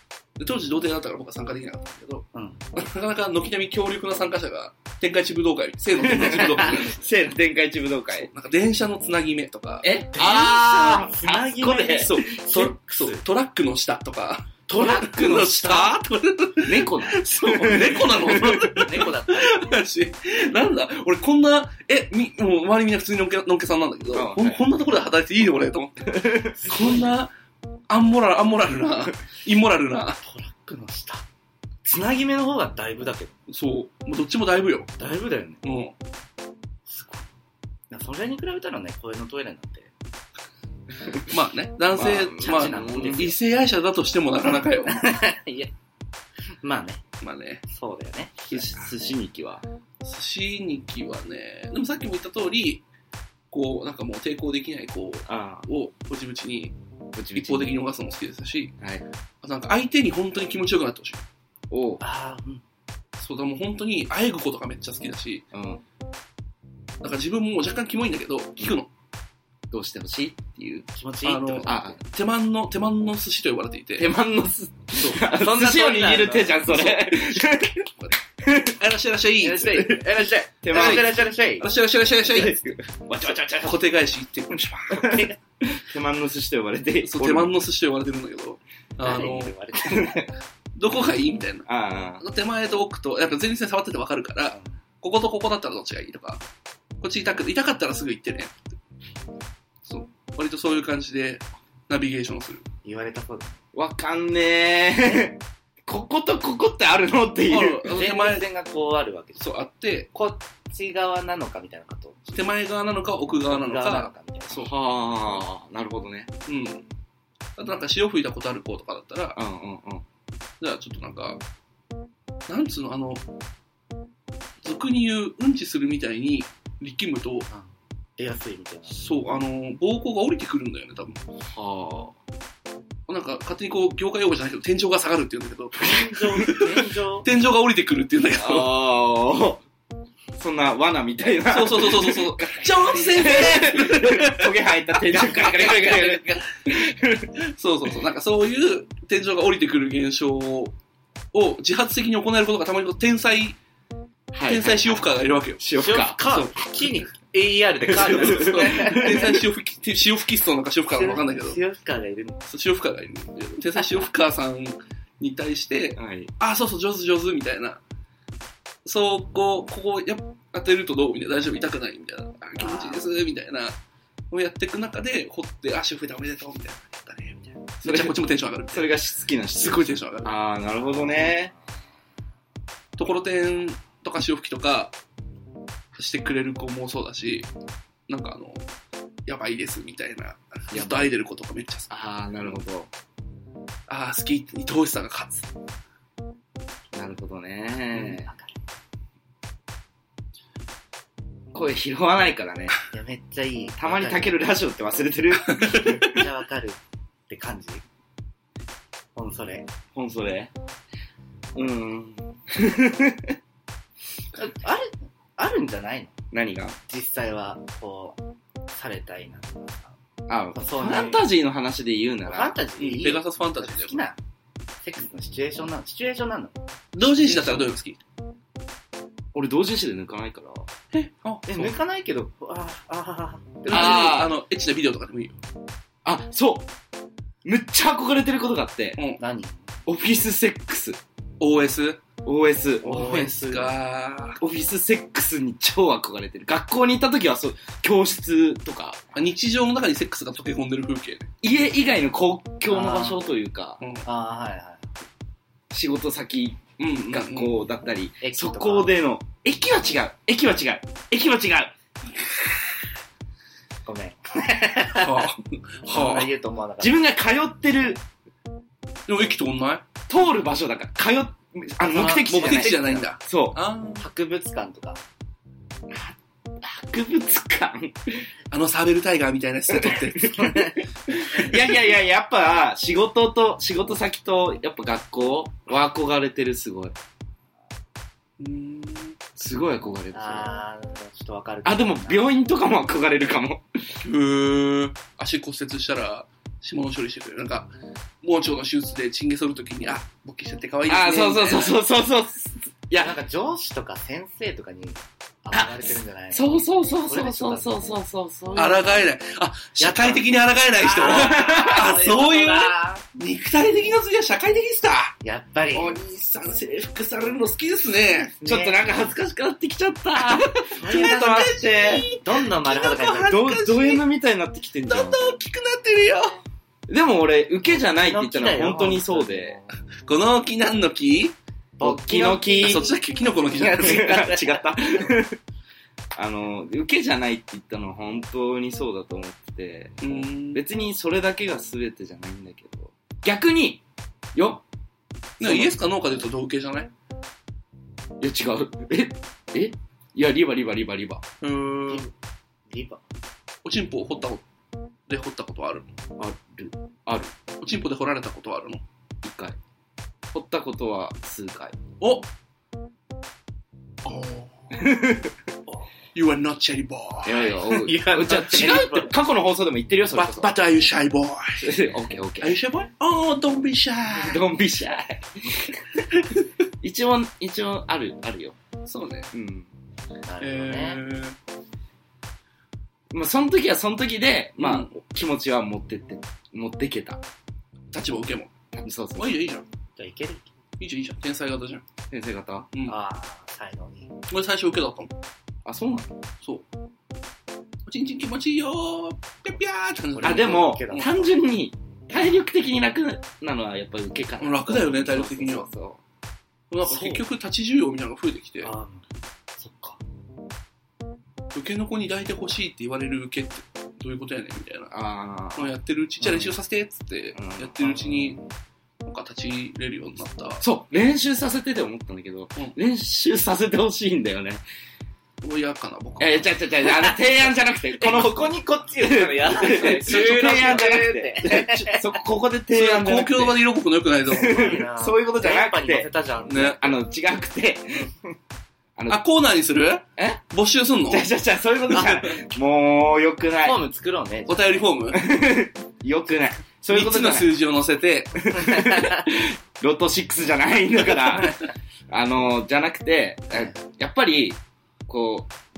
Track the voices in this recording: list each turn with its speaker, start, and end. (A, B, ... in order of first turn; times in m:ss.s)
0:00.4-0:07.0 A
0:02.3-0:02.6 B
0:06.0-0:08.3 C
0:06.3-0:06.8 B
0:08.1-0:09.9 A
0:09.8-0:12.4 C
0:10.1-0:13.2 B
0:12.0-0:27.3 A
0:14.7-0:15.7 B
0:14.7-0:15.9 C
0:16.6-0:18.8 C
0:18.7-0:19.8 B
0:24.1-0:24.6 C
0:26.0-0:26.7 C
0:26.6-0:27.1 B
0:27.9-0:30.2 A
0:30.2-0:31.2 B
0:31.8-0:33.4 B
0:33.5-0:34.9 A
0:35.0-0:35.6 B
0:35.6-0:35.9 A
0:36.9-0:37.2 B
0:37.9-0:39.9 B
0:41.0-0:41.3 C
0:41.3-0:45.0 A
0:41.9-0:43.3 C
0:42.3-0:43.4 B
0:44.8-0:45.7 B
0:46.6-0:47.0 B
0:47.2-0:47.6 A
0:47.7-0:48.7 B
0:48.5-0:49.6 C
0:50.0-0:52.8 A
0:53.5-0:56.8 A
0:55.3-0:55.7 C
0:57.2-0:57.8 C
0:57.3-0:58.7 A
0:58.8-0:59.0 C
0:59.4-1:01.2 A
1:01.7-1:02.0 C
1:02.0-1:02.6 B
1:03.2-1:05.4 A
1:05.5-1:05.8 C
1:07.0-1:08.9 A
1:09.7-1:10.9 C
1:10.9-1:11.9 B
1:11.2-1:14.1 A
1:11.6-1:12.0 C
1:14.0-1:17.9 C
1:15.2-1:16.6 B
1:16.6-1:17.4 A
1:18.0-1:19.8 A
1:18.4-1:18.8 C
1:19.4-1:21.7 B
1:19.7-1:20.1 C
1:20.6-1:21.1 C
1:20.7-1:22.6 A
1:22.2-1:23.8 C
1:23.2-1:25.2 A
1:24.5-1:27.5 C
1:25.0-1:25.3 B
1:27.0-1:29.6 A
1:29.0-1:30.2 B
1:29.8-1:30.3 C
1:30.7-1:31.7 A
1:31.7-1:32.2 C
1:32.2-1:36.4 A
1:37.0-1:38.5 A
1:39.8-1:42.6 A
1:42.8-1:43.6 B
1:43.7-1:47.9 C
1:47.5-1:48.4 A
1:47.9-1:49.4 B
1:49.4-1:50.1 A
1:50.1-1:52.5 B
1:52.3-1:54.7 A
1:53.3-1:54.7 B
1:54.5-1:56.3 C
1:56.5-1:56.8 A
1:57.6-1:59.4 A
1:59.4-2:00.0 C
2:00.6-2:01.4 A
2:02.5-2:03.2 A
2:04.6-2:07.5 A
2:07.5-2:09.0 B
2:08.9-2:11.2 A
2:11.5-2:12.2 C
2:13.1-2:18.7 A
2:15.8-2:17.3 B
2:15.8-2:16.5 C
2:18.3-2:19.6 C
2:20.4-2:27.3 C
2:21.5-2:26.4 A
2:27.4-2:30.7 A
2:31.3-2:33.6 A
2:34.3-2:35.1 C
2:34.4-2:35.6 A
2:35.6-2:36.2 C
2:35.8-2:39.4 B
2:36.2-2:36.6 A
2:37.9-2:39.3 C
2:37.9-2:41.6 A
2:40.9-2:42.4 B
2:42.5-2:47.8 A
2:46.0-2:46.3 C
2:48.8-2:53.8 A
2:52.6-2:53.0 C
2:54.3-2:58.9 A
2:57.8-3:01.5 C
2:59.5-3:00.3 A
3:03.0-3:04.9 A
3:05.9-3:07.5 A
3:08.1-3:08.6 A
3:09.2-3:11.9 A
3:10.7-3:11.1 C
3:11.9-3:12.9 C
3:13.9-3:15.5 A
3:16.9-3:18.3 C
3:17.9-3:18.5 B
3:21.5-3:22.7 C
3:22.9-3:24.4 B
3:23.8-3:26.2 C
3:25.4-3:26.1 A
3:25.9-3:27.8 B
3:29.1-3:29.7 B
3:29.9-3:30.5 C
3:31.5-3:33.4 C
3:34.3-3:36.1 B
3:36.3-3:36.8 C
3:36.9-3:38.2 B
3:38.7-3:40.0 B
3:40.3-3:42.5 C
3:40.5-3:41.2 B
3:42.2-3:44.2 B
3:42.8-3:44.0 A
3:44.8-3:47.7 B
3:47.0-3:48.0 A
3:49.3-3:50.7 C
3:50.9-3:51.7 A
3:51.4-3:54.3 B
3:53.7-3:55.4 A
3:53.7-3:54.4 C
3:56.0-3:56.7 C
3:57.4-3:59.0 C
3:59.2-3:59.8 B
3:59.8-4:01.0 C
4:01.4-4:02.0 A
4:02.2-4:03.0 C
4:02.8-4:03.7 B
4:02.8-4:04.4 A
4:04.4-4:09.0 C
4:09.1-4:11.3 A
4:11.4-4:13.8 C
4:12.7-4:13.2 B
4:13.8-4:14.0 A
4:14.0-4:14.9 B
4:15.7-4:21.7 C
4:16.8-4:17.5 A
4:18.2-4:18.9 B
4:23.8-4:25.3 B
4:24.9-4:26.3 A
4:25.8-4:27.0 B
4:26.8-4:28.0 C
4:29.1-4:29.8 A
4:30.1-4:33.6 C
4:31.8-4:33.1 B
4:31.9-4:34.0 A
4:34.0-4:35.0 B
4:35.9-4:38.2 C
4:38.5-4:40.6 A
4:39.7-4:40.5 C
4:40.2-4:40.8 B
4:41.1-4:46.9 C
4:48.4-4:49.2 A
4:49.3-4:50.5 C
4:50.1-4:52.3 B
4:51.6-4:53.8 C
4:54.0-5:01.8 A
5:00.9-5:03.2 C
5:03.0-5:07.8 B
5:05.5-5:09.1 C
5:08.5-5:15.2 A
5:09.8-5:13.0 B
5:11.0-5:11.9 C
5:15.2-5:16.0 B
5:15.7-5:18.3 A
5:18.0-5:19.1 B
5:18.4-5:22.1 C
5:20.2-5:24.0 A
5:20.7-5:21.5 B
5:22.1-5:23.4 B
5:23.2-5:25.2 C
5:24.9-5:26.4 A
5:26.9-5:29.6 C
5:27.8-5:29.8 B
5:30.0-5:31.4 A
5:31.8-5:33.0 B
5:31.8-5:32.9 C
5:32.6-5:34.2 A
5:33.6-5:34.6 B
5:33.6-5:35.4 C
5:36.1-5:40.0 C
5:40.0-5:40.6 A
5:40.5-5:43.8 C
5:44.3-5:44.6 C
5:45.4-5:45.7 C
5:45.4-5:46.9 A
5:48.2-5:51.2 C
5:51.4-5:52.1 A
5:52.7-5:53.0 B
5:53.6-5:54.4 A
5:55.1-5:55.9 A
5:56.2-5:57.3 C
5:57.6-5:58.8 A
5:59.2-5:59.6 C
6:00.3-6:01.8 C
6:02.0-6:02.3 A
6:04.0-6:04.7 A
6:04.7-6:05.4 C
6:05.7-6:07.5 A
6:07.2-6:10.5 C
6:07.3-6:09.1 B
6:10.1-6:11.7 A
6:11.6-6:12.6 C
6:12.4-6:14.4 A
6:14.1-6:16.1 C
6:16.8-6:18.6 C
6:18.8-6:19.3 A
6:19.3-6:19.7 C
6:20.2-6:21.0 B
6:20.4-6:21.4 A
6:23.1-6:27.2 C
6:24.6-6:24.9 A
6:27.9-6:28.5 A
6:28.7-6:29.4 C
6:29.2-6:29.6 A
6:30.0-6:30.5 B
6:30.8-6:31.8 A
6:32.1-6:32.7 C
6:32.8-6:34.1 B
6:34.3-6:35.1 A
6:35.6-6:36.1 C
6:37.8-6:40.7 A
6:40.2-6:41.4 B
6:40.2-6:46.0 C
6:44.4-6:45.7 A
6:46.7-6:48.7 A
6:46.8-6:47.2 B
6:48.6-6:49.0 B
6:49.6-6:50.0 B
6:51.5-6:54.9 A
6:54.9-6:55.7 C
6:55.5-6:58.4 A
6:57.3-6:58.0 C
6:59.0-7:00.6 A
7:00.6-7:04.6 C
7:05.4-7:06.5 A
7:06.2-7:13.6 C
7:06.8-7:07.2 B
7:07.9-7:12.1 B
7:09.6-7:10.8 A
7:12.7-7:14.8 A
7:14.3-7:18.1 C
7:14.3-7:16.8 B
7:16.5-7:16.8 A
7:19.1-7:21.3 A
7:20.2-7:20.4 C
7:21.1-7:23.8 C
7:21.9-7:22.4 A
7:23.6-7:24.9 B
7:24.5-7:25.2 A
7:25.1-7:27.5 C
7:26.9-7:28.5 A
7:28.4-7:35.5 C
7:28.5-7:29.2 B